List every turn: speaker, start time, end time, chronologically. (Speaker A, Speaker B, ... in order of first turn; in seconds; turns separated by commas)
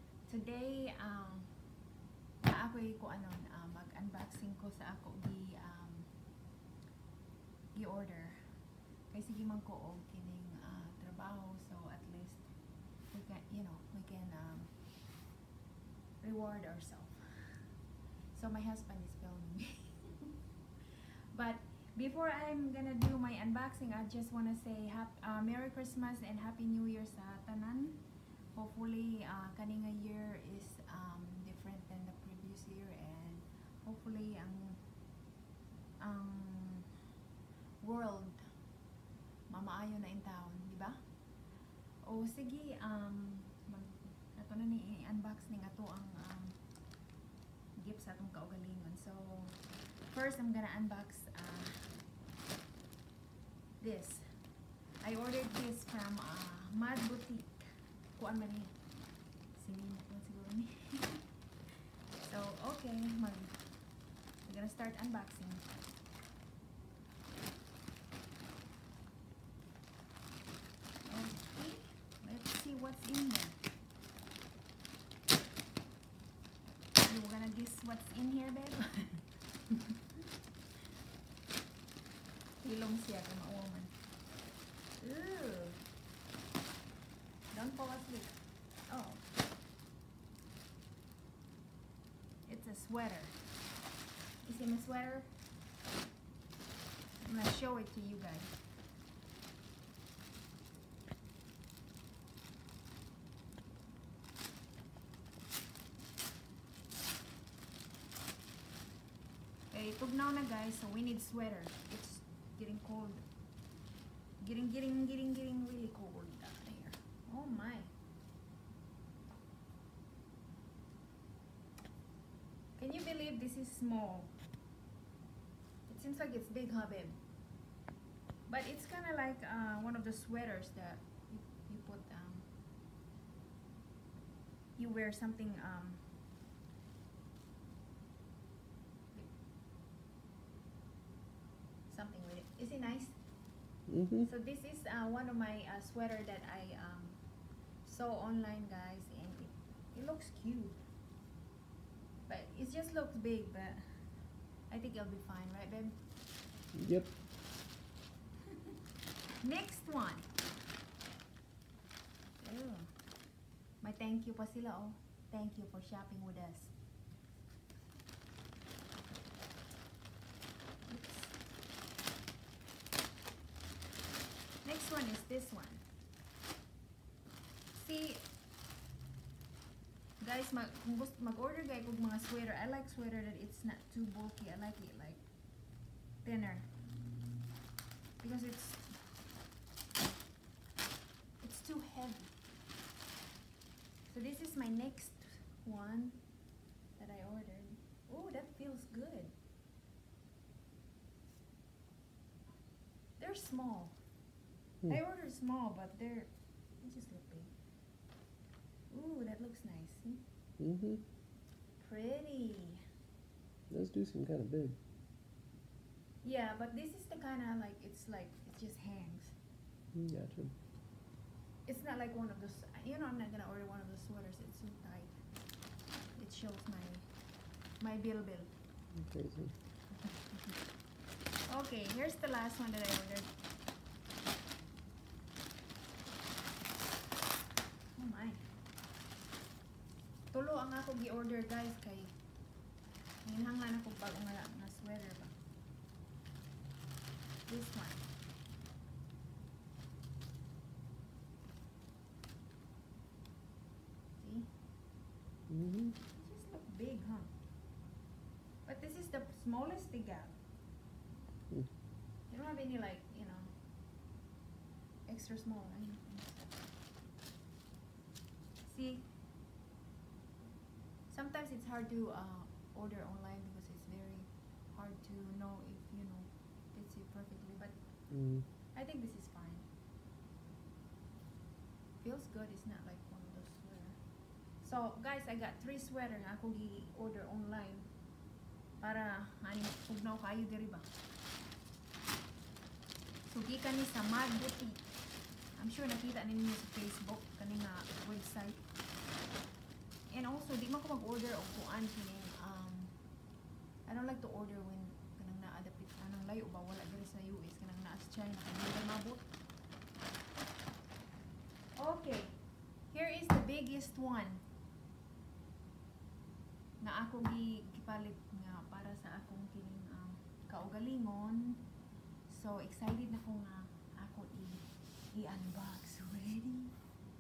Speaker A: 0.3-1.5, Speaker A: 2.4-6.1, Speaker A: 7.7-8.5, Speaker A: 9.1-12.4, Speaker A: 13.1-14.7, Speaker A: 16.2-17.6, Speaker A: 18.3-20.3, Speaker A: 21.3-28.0, Speaker A: 28.5-34.8, Speaker A: 36.0-37.0, Speaker A: 37.8-38.5, Speaker A: 39.5-41.0, Speaker A: 42.0-46.6, Speaker A: 47.8-52.0, Speaker A: 53.8-54.3, Speaker A: 55.0-58.7, Speaker A: 59.5-61.3, Speaker A: 62.2-63.5, Speaker A: 64.5-65.7, Speaker A: 71.0-73.6, Speaker A: 77.0-79.9, Speaker A: 82.6-83.9, Speaker A: 85.0-85.8, Speaker A: 87.5-88.4, Speaker A: 88.9-89.2, Speaker A: 92.5-93.4, Speaker A: 94.4-95.3, Speaker A: 97.2-98.5, Speaker A: 109.7-113.2, Speaker A: 114.4-117.9, Speaker A: 122.8-124.3, Speaker A: 125.9-127.2, Speaker A: 128.5-132.5, Speaker A: 134.8-136.0, Speaker A: 141.9-143.2, Speaker B: 143.9-144.3, Speaker A: 144.2-147.2, Speaker A: 147.8-150.8, Speaker A: 152.3-153.8, Speaker A: 154.7-156.0, Speaker B: 156.7-157.1, Speaker A: 159.4-160.3, Speaker A: 162.4-162.9, Speaker A: 163.8-166.7, Speaker A: 170.9-171.3, Speaker A: 174.6-175.8, Speaker A: 177.7-178.2, Speaker A: 180.2-185.2, Speaker A: 186.2-186.7, Speaker A: 188.2-189.0, Speaker A: 191.4-192.3, Speaker A: 194.1-196.2, Speaker A: 197.0-199.3, Speaker A: 203.2-203.9, Speaker A: 204.9-207.5, Speaker A: 208.9-210.2, Speaker B: 210.6-211.0, Speaker A: 211.8-212.8, Speaker B: 213.7-214.8, Speaker A: 216.2-219.3, Speaker B: 219.9-220.5, Speaker A: 221.7-225.1, Speaker A: 226.0-227.1, Speaker A: 227.8-228.5, Speaker B: 228.9-229.5, Speaker A: 231.5-233.3, Speaker A: 237.9-238.4, Speaker A: 240.3-242.1, Speaker A: 243.2-245.3, Speaker A: 247.5-248.0, Speaker A: 254.2-254.5, Speaker B: 255.5-256.0, Speaker A: 256.1-257.3, Speaker A: 258.6-260.4, Speaker A: 262.3-263.5, Speaker A: 265.1-266.6, Speaker A: 268.6-269.1, Speaker A: 271.1-277.8, Speaker B: 278.1-278.5, Speaker A: 278.8-279.7, Speaker A: 282.0-284.0, Speaker A: 284.6-287.9, Speaker A: 288.8-290.9, Speaker A: 293.3-294.9, Speaker A: 295.6-298.6, Speaker A: 300.1-302.9, Speaker A: 303.9-309.3, Speaker A: 311.8-312.4, Speaker A: 312.9-314.4, Speaker A: 316.8-321.6, Speaker A: 322.3-326.7